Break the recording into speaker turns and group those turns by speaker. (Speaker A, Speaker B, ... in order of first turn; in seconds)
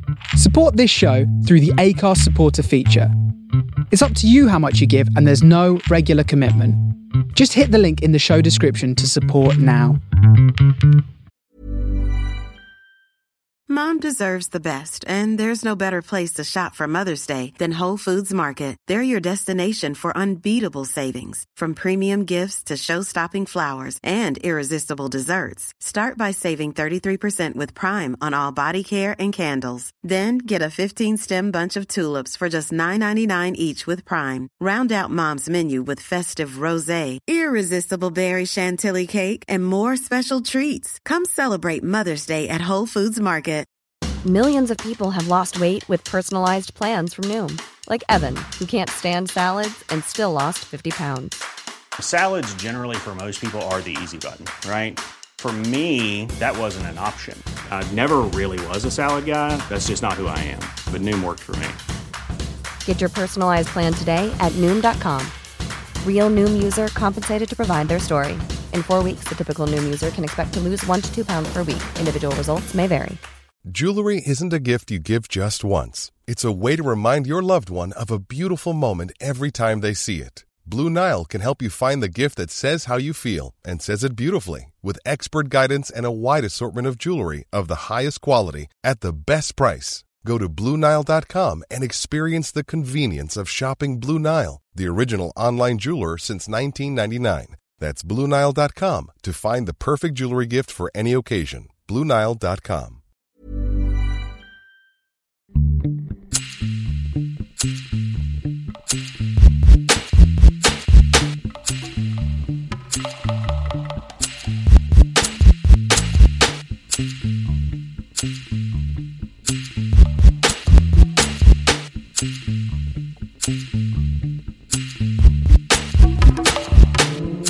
Speaker A: 0.3-3.1, 3.9-6.8, 7.3-10.0
Speaker B: 13.7-43.7
Speaker C: 44.2-51.4, 62.8-65.3, 66.0-73.2
Speaker D: 52.0-61.8
Speaker E: 73.7-103.0